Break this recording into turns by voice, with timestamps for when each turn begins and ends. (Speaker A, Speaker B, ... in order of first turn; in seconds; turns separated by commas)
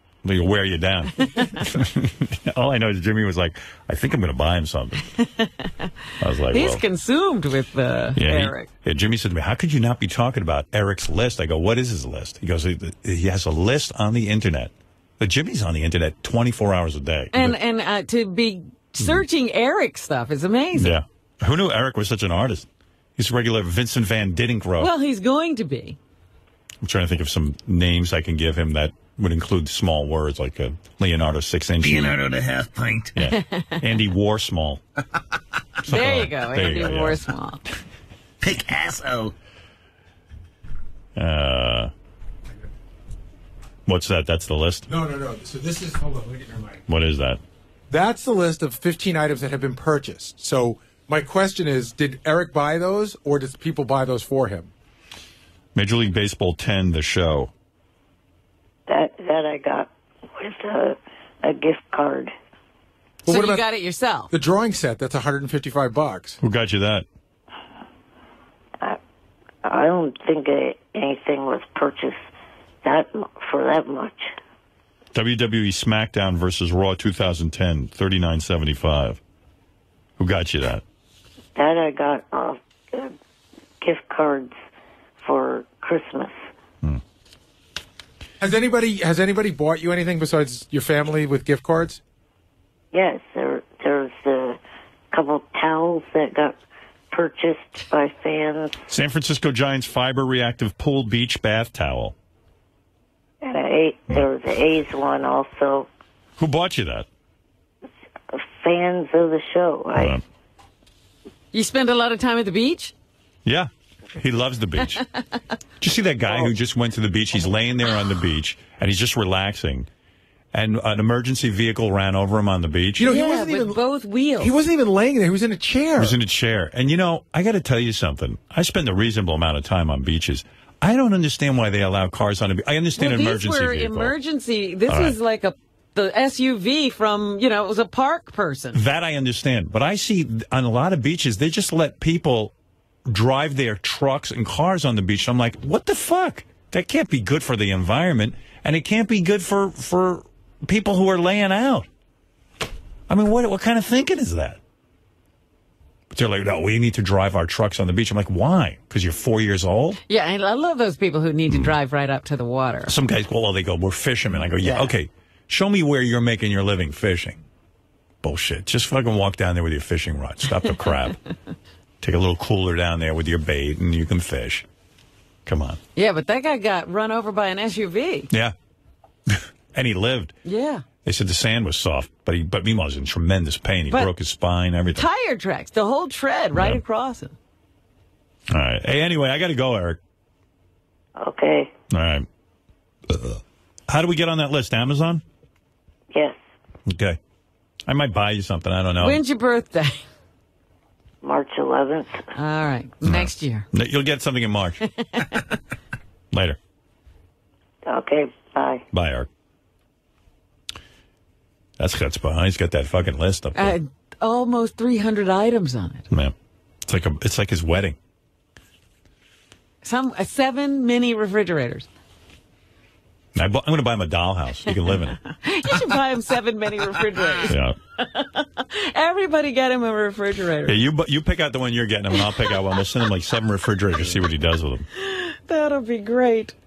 Speaker A: 0.2-5.1, Speaker B: 5.2-5.9, Speaker A: 6.2-6.8, Speaker B: 6.5-8.7, Speaker A: 8.2-17.6, Speaker B: 17.3-20.9, Speaker A: 20.8-24.9, Speaker B: 24.8-26.0, Speaker A: 26.8-32.2, Speaker C: 31.8-33.2, Speaker A: 33.1-34.8, Speaker B: 33.3-33.8, Speaker A: 35.9-37.2, Speaker B: 35.9-37.6, Speaker C: 38.4-39.3, Speaker A: 41.2-41.9, Speaker A: 43.9-44.9, Speaker D: 44.9-46.8, Speaker A: 46.9-47.4, Speaker D: 47.9-54.7, Speaker A: 55.8-57.5, Speaker E: 58.9-62.3, Speaker D: 63.3-63.6, Speaker B: 63.3-64.3, Speaker D: 64.3-66.4, Speaker A: 66.4-67.1, Speaker E: 69.6-72.2, Speaker E: 72.8-74.3, Speaker A: 75.1-79.2, Speaker A: 80.2-80.8, Speaker E: 81.6-83.1, Speaker E: 83.8-84.5, Speaker E: 85.2-86.3, Speaker D: 88.4-92.0, Speaker E: 92.9-94.6, Speaker E: 95.1-96.5, Speaker E: 97.1-98.8, Speaker A: 98.9-102.2, Speaker E: 103.4-105.9, Speaker A: 106.4-107.1, Speaker E: 108.3-110.2, Speaker A: 110.0-110.2, Speaker B: 111.5-112.9, Speaker A: 113.5-115.0, Speaker A: 115.8-119.9, Speaker A: 120.5-123.1, Speaker D: 123.0-123.8, Speaker B: 123.1-124.6, Speaker D: 124.4-126.2, Speaker A: 126.0-134.2, Speaker B: 133.0-138.8, Speaker A: 134.9-135.2, Speaker A: 138.7-142.5, Speaker A: 143.1-151.9, Speaker A: 153.1-154.6, Speaker A: 156.1-160.0, Speaker B: 160.1-162.9, Speaker A: 161.5-161.8, Speaker A: 162.9-167.4, Speaker B: 164.6-164.9, Speaker A: 168.2-171.2, Speaker A: 172.0-174.7, Speaker A: 175.5-175.8, Speaker B: 175.9-178.3, Speaker A: 179.3-180.3, Speaker B: 180.4-180.8, Speaker A: 181.0-185.1, Speaker B: 184.9-187.3, Speaker A: 186.6-186.8, Speaker A: 188.5-190.0, Speaker E: 191.2-191.7, Speaker A: 191.9-192.3, Speaker A: 193.1-195.2, Speaker A: 196.9-197.2, Speaker A: 197.9-199.2, Speaker B: 199.0-200.0, Speaker E: 201.2-202.3, Speaker B: 202.3-203.7, Speaker A: 203.0-204.8, Speaker B: 205.0-205.4, Speaker A: 206.3-206.6, Speaker E: 207.9-208.8, Speaker A: 208.9-209.3, Speaker A: 211.8-213.8, Speaker B: 213.6-216.1, Speaker A: 216.8-218.0, Speaker B: 219.8-221.9, Speaker A: 223.3-225.2, Speaker B: 224.9-230.8, Speaker A: 227.4-227.8, Speaker A: 230.7-234.9, Speaker B: 232.2-232.8, Speaker B: 234.0-234.3, Speaker B: 234.9-236.6